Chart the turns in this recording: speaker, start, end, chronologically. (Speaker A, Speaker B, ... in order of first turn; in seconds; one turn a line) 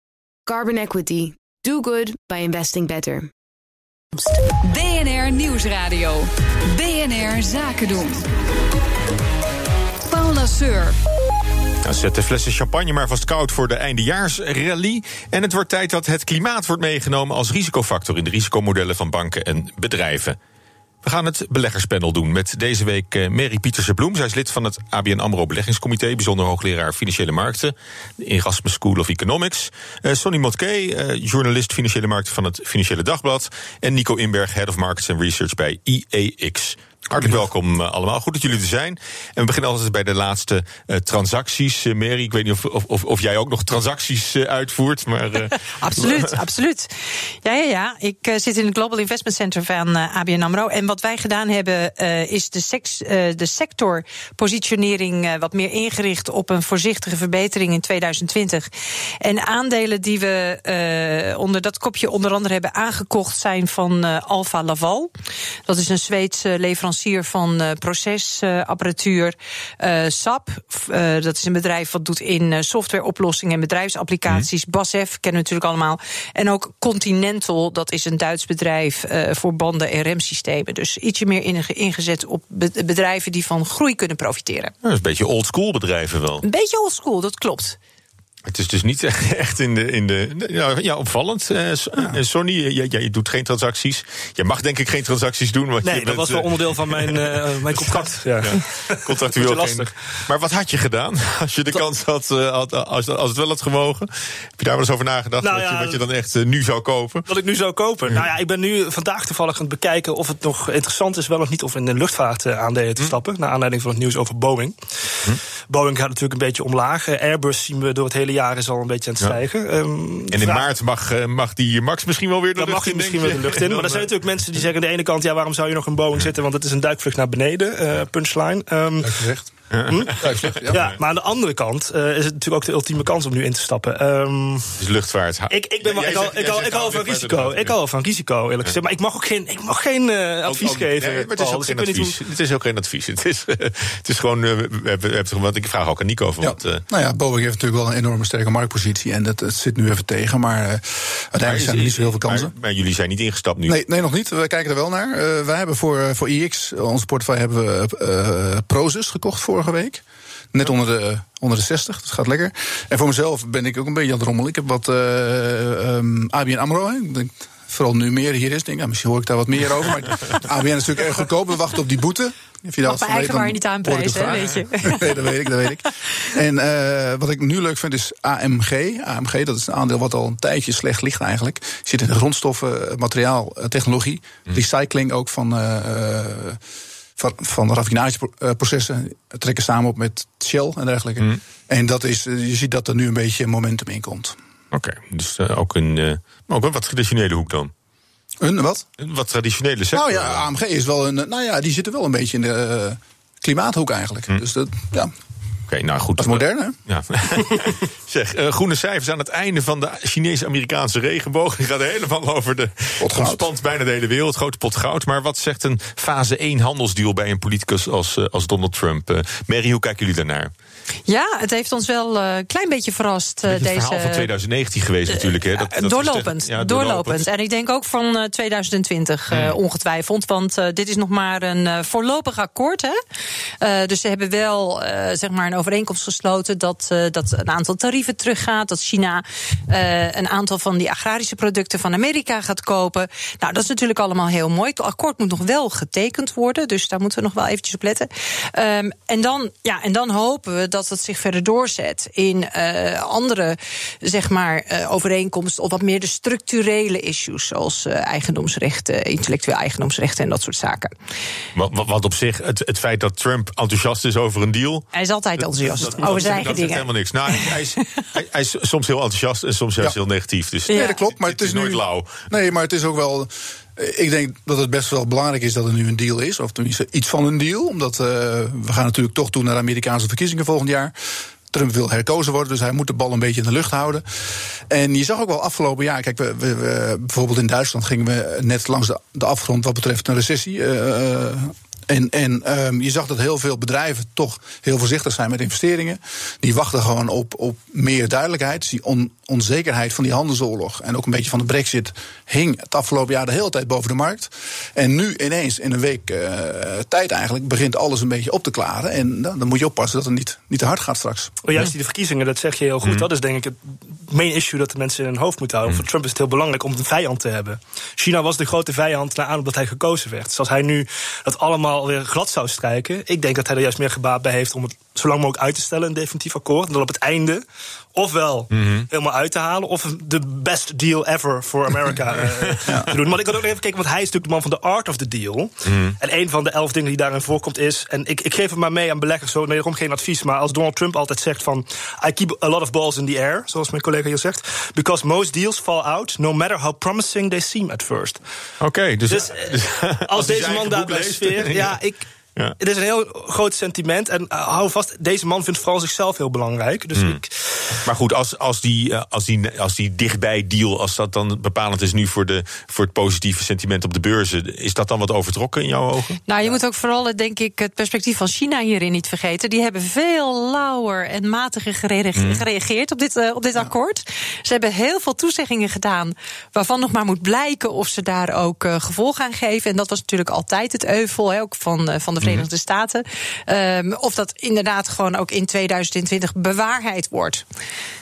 Speaker A: 0.5-3.3
Speaker B: 4.2-8.2
Speaker B: 10.1-11.0
Speaker C: 11.8-20.4
Speaker C: 21.0-46.3
Speaker D: 45.4-58.7
Speaker D: 59.2-65.1
Speaker D: 65.7-84.7
Speaker C: 84.8-86.4
Speaker D: 86.4-87.8
Speaker C: 88.5-107.2
Speaker E: 95.8-99.9
Speaker E: 105.4-106.0
Speaker E: 107.3-120.7
Speaker C: 120.3-124.1
Speaker E: 122.5-129.3
Speaker F: 129.0-129.5
Speaker C: 129.7-131.0
Speaker E: 129.9-134.8
Speaker F: 130.2-130.9
Speaker C: 134.8-137.7
Speaker E: 135.5-142.2
Speaker C: 140.4-146.8
Speaker F: 146.4-152.5
Speaker C: 151.4-153.8
Speaker F: 153.7-186.6
Speaker D: 172.8-175.2
Speaker F: 187.2-194.3
Speaker C: 194.7-197.7
Speaker F: 198.4-198.9
Speaker C: 199.0-200.4
Speaker F: 199.9-205.1
Speaker C: 205.7-220.5
Speaker F: 206.2-206.8
Speaker F: 213.0-213.5
Speaker D: 221.1-224.3
Speaker C: 223.5-227.2
Speaker D: 225.1-232.9
Speaker D: 233.6-260.9
Speaker C: 261.5-272.2
Speaker D: 264.9-267.8
Speaker D: 270.7-271.0
Speaker F: 270.7-280.9
Speaker F: 281.5-311.4
Speaker E: 311.4-327.4
Speaker C: 312.8-313.1
Speaker E: 327.9-348.2
Speaker C: 328.5-328.9
Speaker C: 335.6-336.0
Speaker C: 348.6-351.8
Speaker E: 349.1-352.1
Speaker E: 352.6-357.8
Speaker C: 356.9-357.2
Speaker C: 357.8-366.2
Speaker D: 366.3-387.4
Speaker C: 372.1-372.4
Speaker C: 382.2-382.5